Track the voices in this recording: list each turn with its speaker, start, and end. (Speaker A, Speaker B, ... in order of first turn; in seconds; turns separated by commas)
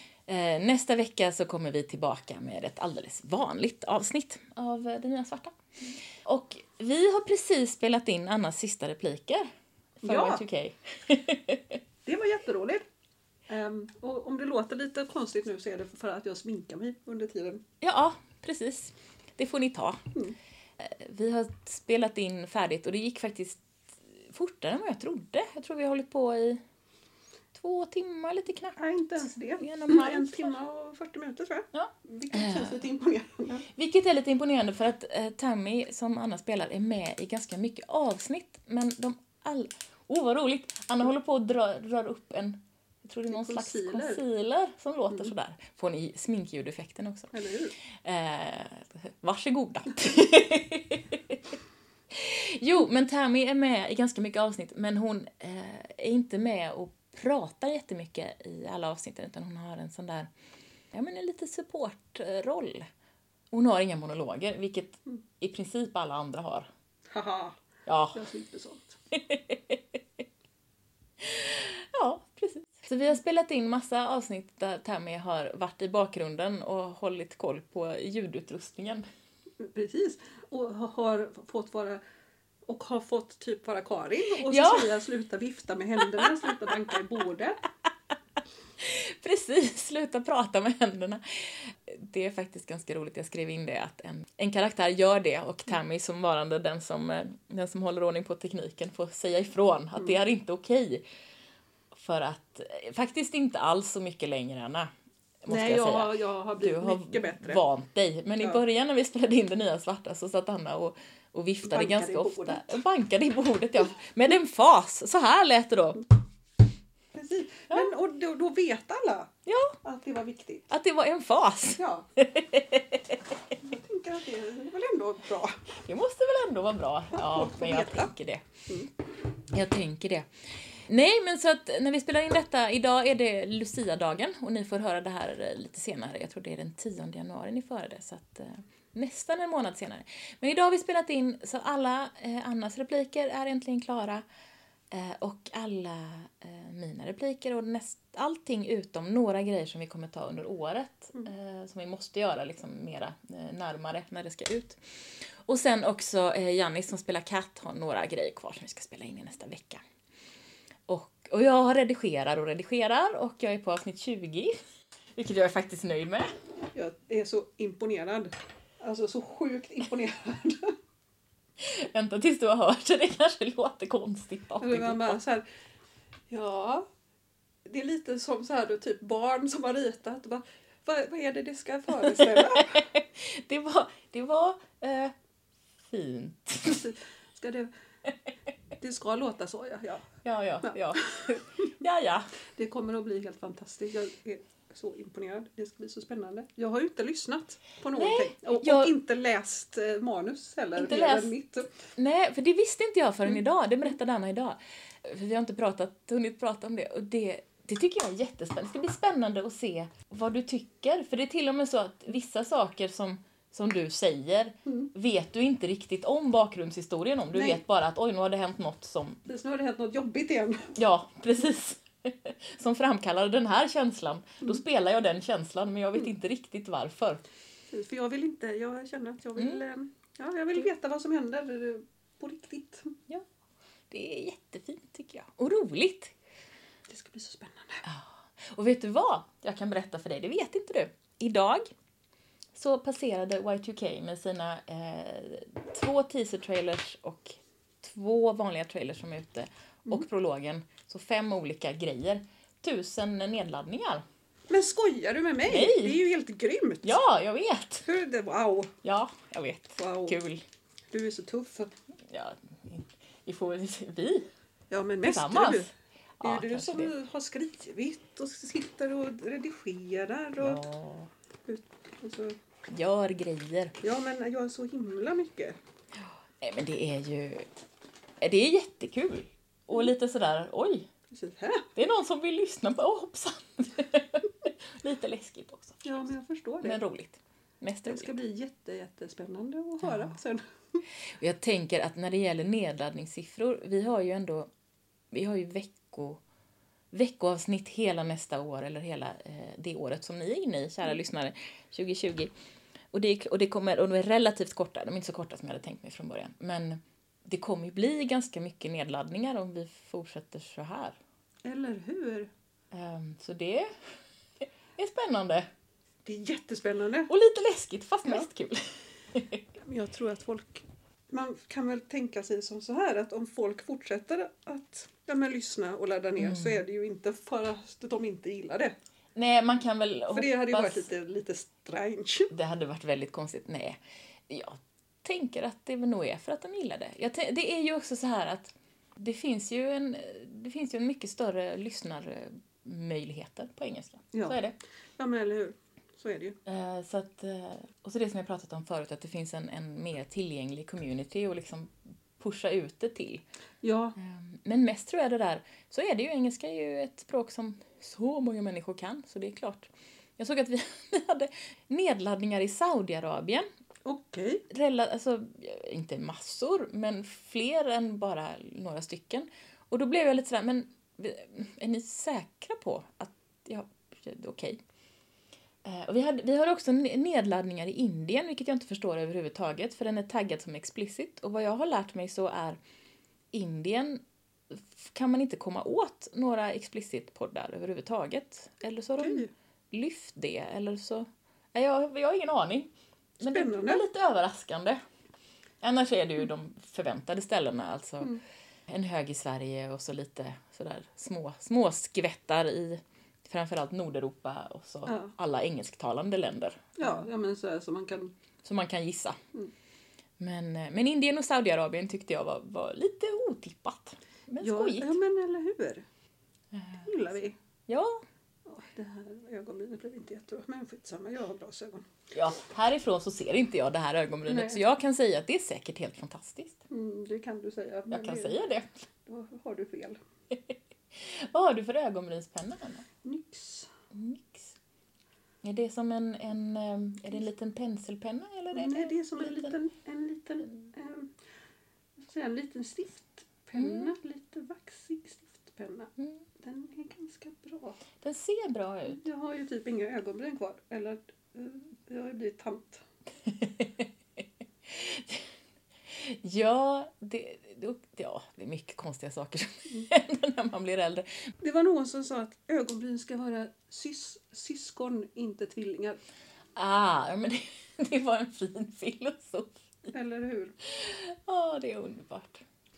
Speaker A: 0.3-5.6, Speaker A: 6.2-11.8, Speaker B: 10.0-10.4, Speaker B: 12.0-12.8, Speaker B: 13.5-17.6, Speaker A: 17.8-20.0, Speaker A: 20.8-23.6, Speaker A: 24.2-26.6, Speaker A: 27.5-28.7, Speaker B: 28.8-33.7, Speaker A: 29.6-30.5, Speaker A: 31.7-32.7, Speaker A: 33.7-47.3, Speaker B: 43.3-44.2, Speaker B: 47.3-47.7, Speaker A: 48.0-51.5, Speaker A: 52.1-60.3, Speaker A: 60.9-62.9, Speaker A: 63.5-66.7, Speaker B: 67.1-67.6, Speaker A: 67.9-68.2, Speaker B: 68.1-69.0, Speaker A: 69.1-69.8, Speaker A: 71.2-79.0, Speaker B: 79.6-82.0, Speaker B: 82.7-87.6, Speaker A: 84.5-84.9, Speaker A: 88.8-101.0, Speaker B: 100.0-100.2, Speaker A: 101.9-104.9, Speaker A: 105.4-116.0, Speaker B: 105.5-107.6, Speaker B: 111.6-112.8, Speaker B: 117.1-120.7, Speaker A: 119.5-119.7, Speaker A: 120.7-123.2, Speaker B: 121.8-122.1, Speaker B: 123.6-125.6, Speaker A: 125.8-128.5, Speaker B: 127.1-128.1, Speaker A: 129.5-130.3, Speaker A: 130.9-144.2, Speaker A: 144.9-159.8, Speaker A: 160.9-164.5, Speaker A: 165.2-166.3, Speaker B: 166.7-170.7, Speaker A: 171.6-175.2, Speaker B: 174.6-175.4, Speaker B: 176.3-176.9, Speaker B: 177.6-182.8, Speaker A: 182.3-185.1, Speaker A: 185.9-186.9, Speaker B: 186.6-187.7, Speaker B: 188.8-190.1, Speaker A: 190.2-192.3, Speaker B: 190.6-191.4, Speaker B: 192.6-201.8, Speaker A: 197.9-198.9, Speaker A: 200.8-201.3, Speaker A: 201.9-219.2, Speaker B: 217.3-217.6, Speaker B: 219.3-220.7, Speaker A: 220.8-227.2, Speaker B: 227.7-232.9, Speaker A: 233.9-236.1, Speaker B: 236.9-237.8, Speaker A: 237.8-241.7, Speaker A: 242.5-254.0, Speaker B: 254.5-257.0, Speaker A: 255.5-256.0, Speaker A: 256.8-257.9, Speaker B: 257.9-258.7, Speaker A: 258.8-260.4, Speaker B: 259.8-260.2, Speaker B: 260.9-261.7, Speaker A: 262.1-264.3, Speaker B: 264.7-265.7, Speaker A: 265.0-266.9, Speaker B: 266.2-270.6, Speaker A: 270.4-271.1, Speaker B: 271.4-272.4, Speaker A: 272.7-273.7, Speaker B: 273.8-275.6, Speaker A: 276.0-277.6, Speaker A: 278.2-280.9, Speaker B: 281.1-281.7, Speaker A: 281.8-285.8, Speaker B: 285.8-286.8, Speaker A: 286.6-288.2, Speaker B: 287.9-290.8, Speaker A: 289.8-290.1, Speaker A: 291.2-294.5, Speaker A: 295.1-296.2, Speaker A: 296.9-302.3, Speaker A: 302.9-311.0, Speaker B: 311.4-312.3, Speaker A: 312.7-313.7, Speaker A: 314.8-315.5, Speaker B: 316.0-317.1, Speaker A: 317.1-319.4, Speaker B: 319.6-328.7, Speaker A: 326.2-326.6, Speaker A: 329.1-330.9, Speaker B: 330.1-332.3, Speaker A: 332.3-344.6, Speaker B: 344.1-344.4, Speaker B: 345.0-346.4, Speaker A: 346.4-353.2, Speaker B: 353.6-353.9, Speaker A: 354.0-363.5, Speaker B: 363.9-364.4, Speaker A: 364.5-374.6, Speaker A: 375.6-382.6, Speaker A: 383.3-394.8, Speaker B: 389.0-389.3, Speaker B: 393.2-393.8, Speaker A: 395.6-398.1, Speaker A: 398.7-407.1, Speaker B: 404.9-405.1, Speaker B: 406.8-408.1, Speaker A: 408.4-409.2, Speaker A: 410.2-414.9, Speaker B: 414.4-415.9, Speaker A: 416.5-416.9, Speaker B: 416.8-417.4, Speaker A: 417.7-418.0, Speaker B: 418.4-421.9, Speaker A: 422.1-426.6, Speaker B: 424.3-424.6, Speaker B: 426.7-428.5, Speaker A: 427.9-428.7, Speaker B: 429.1-430.0, Speaker A: 430.3-432.8, Speaker B: 433.0-433.7, Speaker A: 433.9-434.5, Speaker A: 435.4-439.5, Speaker B: 438.5-441.1, Speaker B: 442.0-447.8, Speaker A: 443.6-443.9, Speaker A: 448.0-449.0, Speaker B: 448.9-452.8, Speaker A: 453.3-455.2, Speaker A: 456.0-461.1, Speaker B: 461.4-466.0, Speaker A: 466.6-469.9, Speaker B: 469.9-470.6, Speaker A: 470.7-472.4